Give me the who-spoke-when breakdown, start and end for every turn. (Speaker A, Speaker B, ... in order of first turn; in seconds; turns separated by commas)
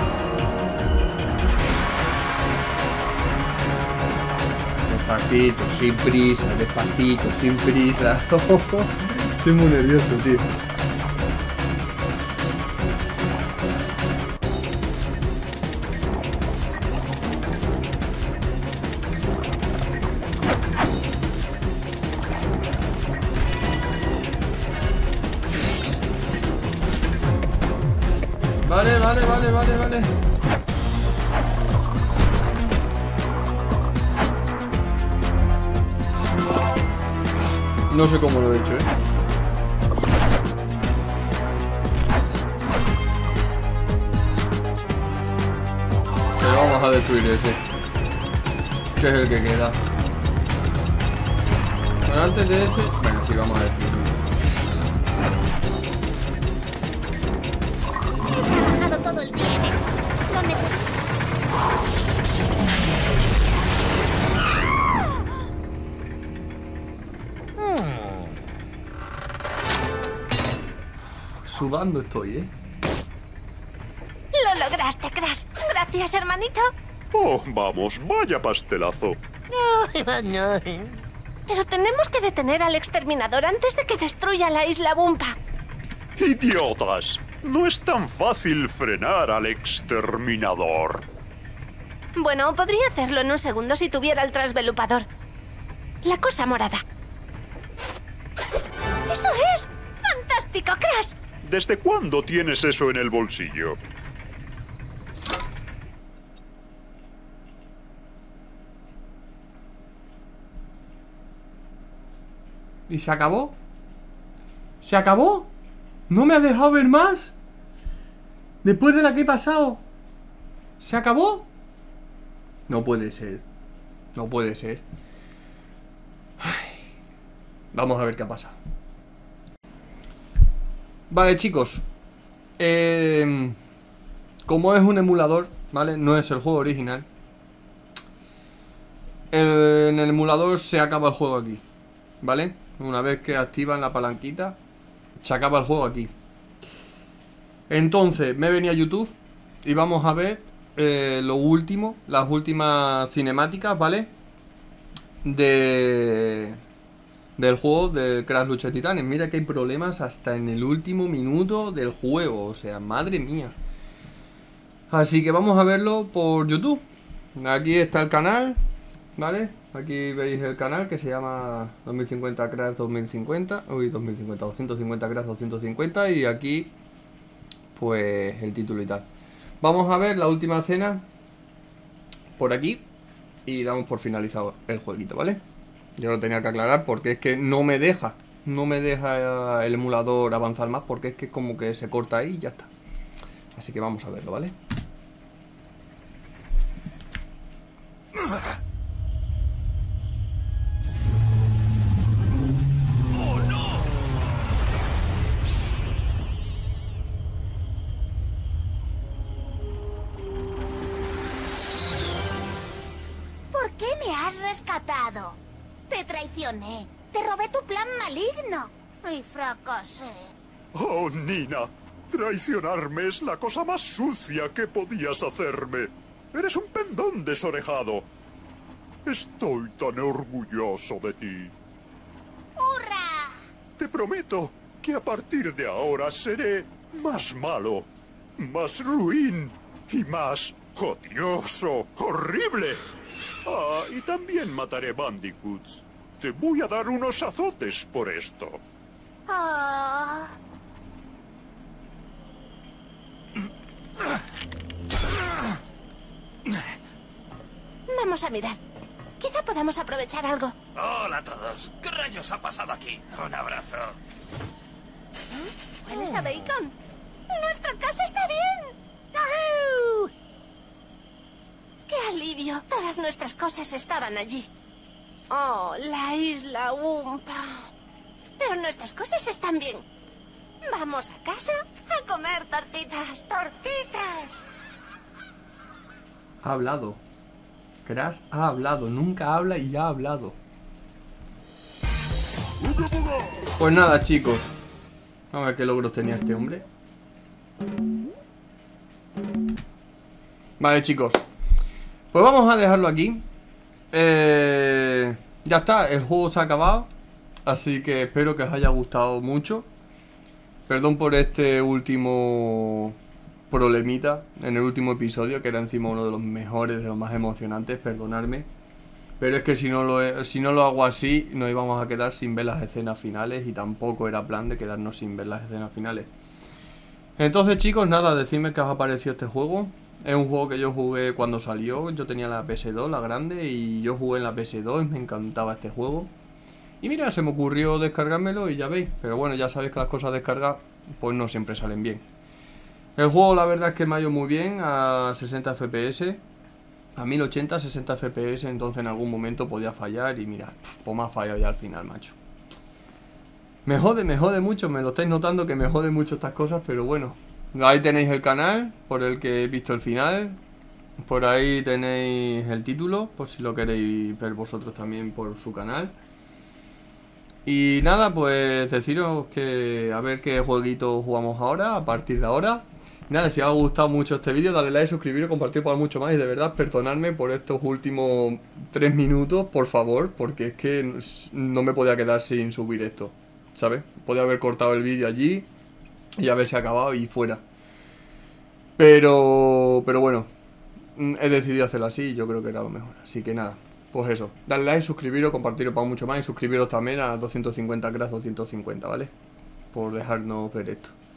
Speaker A: 4.9-10.5, Speaker A: 28.6-30.1, Speaker A: 37.9-38.9, Speaker A: 46.4-47.6, Speaker A: 49.0-49.8, Speaker A: 52.0-54.1, Speaker B: 58.2-61.0, Speaker A: 71.4-72.5, Speaker C: 74.3-76.7, Speaker D: 77.1-79.2, Speaker E: 79.5-81.0, Speaker C: 81.5-85.3, Speaker D: 86.2-91.0, Speaker C: 92.2-95.1, Speaker C: 96.0-96.8, Speaker C: 99.1-101.2, Speaker D: 101.4-103.8, Speaker A: 112.9-113.5, Speaker A: 114.8-115.5, Speaker A: 116.1-117.3, Speaker A: 118.6-119.8, Speaker A: 120.8-121.5, Speaker A: 122.7-123.4, Speaker A: 124.1-124.8, Speaker A: 126.4-126.8, Speaker A: 127.7-128.6, Speaker A: 131.1-131.8, Speaker A: 132.6-133.6, Speaker A: 134.4-137.1, Speaker A: 139.3-141.6, Speaker A: 142.2-144.6, Speaker A: 145.2-146.1, Speaker A: 147.7-154.1, Speaker A: 155.2-156.6, Speaker A: 157.4-163.6, Speaker A: 164.9-166.8, Speaker A: 167.3-168.6, Speaker A: 169.2-176.7, Speaker A: 177.7-179.1, Speaker A: 179.6-181.0, Speaker A: 182.4-182.8, Speaker A: 183.4-185.4, Speaker A: 186.0-192.7, Speaker A: 193.5-194.5, Speaker B: 213.5-220.3, Speaker D: 220.7-228.1, Speaker D: 229.0-231.5, Speaker B: 232.6-233.4, Speaker D: 233.8-242.8, Speaker D: 243.4-248.6, Speaker B: 249.3-250.3, Speaker C: 257.9-258.6, Speaker C: 259.2-260.5, Speaker E: 260.7-264.0, Speaker C: 265.8-266.7, Speaker C: 267.3-270.1, Speaker C: 271.9-274.5, Speaker C: 275.3-277.7, Speaker C: 278.4-279.8, Speaker C: 280.6-284.4, Speaker A: 286.4-287.0, Speaker A: 287.8-290.4, Speaker D: 292.8-293.2, Speaker A: 293.6-294.5, Speaker A: 295.3-296.6, Speaker A: 300.6-301.2, Speaker A: 302.1-303.2, Speaker A: 303.9-306.9, Speaker A: 307.4-309.7, Speaker A: 310.7-312.9, Speaker A: 313.5-318.5, Speaker A: 319.2-326.1, Speaker A: 327.2-336.1, Speaker A: 336.8-342.0, Speaker A: 343.0-346.2, Speaker A: 346.9-352.1, Speaker A: 353.6-360.4, Speaker A: 361.0-365.9, Speaker A: 367.4-385.5, Speaker A: 386.2-387.4, Speaker A: 388.8-390.3, Speaker A: 390.9-399.1, Speaker A: 399.7-400.9